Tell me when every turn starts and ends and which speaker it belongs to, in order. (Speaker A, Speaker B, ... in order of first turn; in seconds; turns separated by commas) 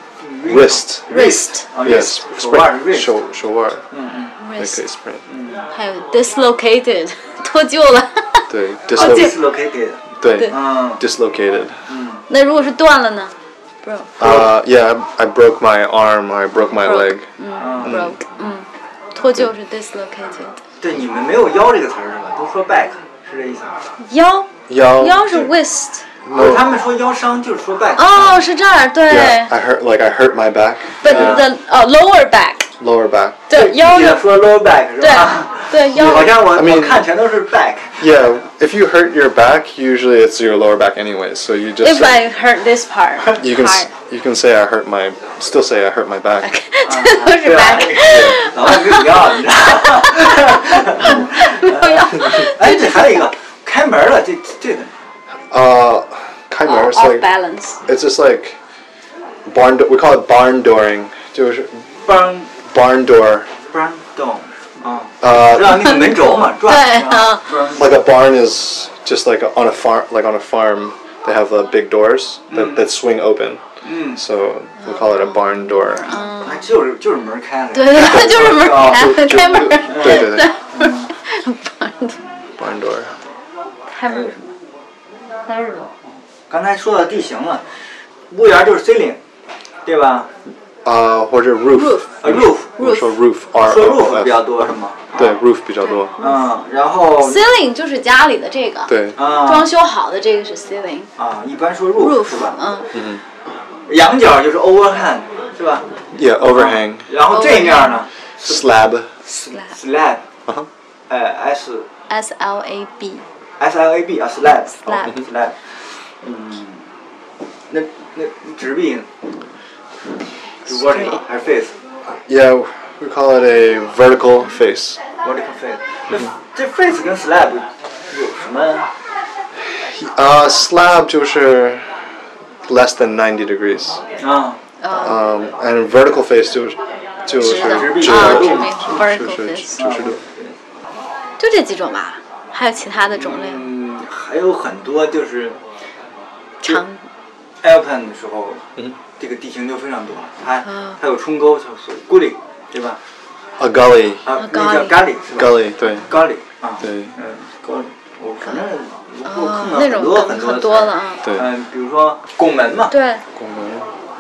Speaker A: 0.2-3.2, Speaker B: 0.4-1.1, Speaker C: 1.1-1.7, Speaker B: 1.8-3.8, Speaker A: 3.9-4.3, Speaker C: 4.4-4.8, Speaker B: 4.5-5.2, Speaker A: 5.2-5.7, Speaker C: 5.7-9.3, Speaker B: 8.5-9.4, Speaker A: 8.9-11.0, Speaker B: 10.2-11.8, Speaker C: 10.2-10.6, Speaker A: 11.9-12.2, Speaker C: 12.3-14.2, Speaker B: 14.2-17.3, Speaker A: 14.2-14.5, Speaker C: 16.5-20.6, Speaker A: 17.6-18.1, Speaker B: 17.8-18.2, Speaker B: 19.2-19.5, Speaker A: 20.8-23.8, Speaker C: 24.0-26.1, Speaker B: 24.7-25.4, Speaker B: 26.2-26.7, Speaker A: 26.3-28.5, Speaker C: 28.0-29.5, Speaker B: 29.1-31.4, Speaker C: 31.0-32.7, Speaker A: 31.0-31.5, Speaker B: 32.8-33.4, Speaker C: 33.5-34.3, Speaker A: 33.5-38.0, Speaker C: 35.0-36.4, Speaker B: 35.9-37.1, Speaker B: 38.0-42.3, Speaker C: 41.8-43.9, Speaker B: 43.3-46.5, Speaker C: 46.4-53.3, Speaker A: 46.8-54.9, Speaker B: 48.0-48.4, Speaker B: 51.0-51.3, Speaker B: 55.5-57.3, Speaker C: 56.6-57.8, Speaker B: 57.9-58.6, Speaker B: 59.5-61.8, Speaker A: 62.0-62.5, Speaker B: 62.6-63.5, Speaker A: 63.6-67.9, Speaker B: 65.2-66.1, Speaker C: 65.8-67.7, Speaker B: 67.8-76.3, Speaker A: 72.5-72.9, Speaker A: 73.8-74.2, Speaker C: 74.8-76.7, Speaker A: 76.4-79.2, Speaker C: 77.7-82.2, Speaker B: 78.0-80.5, Speaker A: 79.8-81.1, Speaker B: 82.6-83.1, Speaker C: 83.9-84.3, Speaker A: 84.0-84.5, Speaker C: 85.5-85.9, Speaker A: 86.5-87.6, Speaker A: 88.3-89.2, Speaker A: 89.8-90.3, Speaker B: 90.8-96.1, Speaker C: 91.7-93.2, Speaker A: 92.2-92.8, Speaker A: 93.6-95.4, Speaker C: 95.8-96.5, Speaker A: 96.2-97.5, Speaker C: 97.2-101.1, Speaker B: 98.9-99.2, Speaker A: 99.1-99.7, Speaker A: 101.2-102.6, Speaker C: 102.0-103.0, Speaker B: 102.9-103.2, Speaker A: 103.9-108.6, Speaker B: 106.1-107.1, Speaker C: 107.2-108.1, Speaker B: 108.4-109.1, Speaker C: 109.3-109.7, Speaker A: 109.3-110.2, Speaker A: 111.1-111.9, Speaker C: 112.1-113.2, Speaker A: 113.6-116.8, Speaker C: 114.8-115.2, Speaker A: 117.7-119.1, Speaker A: 120.7-121.7, Speaker C: 120.7-121.2, Speaker B: 122.2-125.0, Speaker A: 125.2-128.9, Speaker B: 129.7-131.9, Speaker B: 132.6-134.0, Speaker A: 134.2-134.6, Speaker C: 134.8-135.2, Speaker B: 134.9-140.2, Speaker A: 137.4-138.8, Speaker C: 137.4-139.9, Speaker A: 139.8-140.5, Speaker C: 141.4-143.7, Speaker A: 143.1-145.6, Speaker C: 146.6-147.0, Speaker A: 147.6-148.6, Speaker A: 149.2-153.0, Speaker C: 150.6-151.0, Speaker B: 153.6-154.2, Speaker A: 154.2-162.9, Speaker C: 154.3-155.1, Speaker B: 155.3-156.1, Speaker B: 156.8-157.1, Speaker C: 159.2-161.3, Speaker B: 161.2-161.5, Speaker C: 162.9-163.2, Speaker B: 163.3-163.9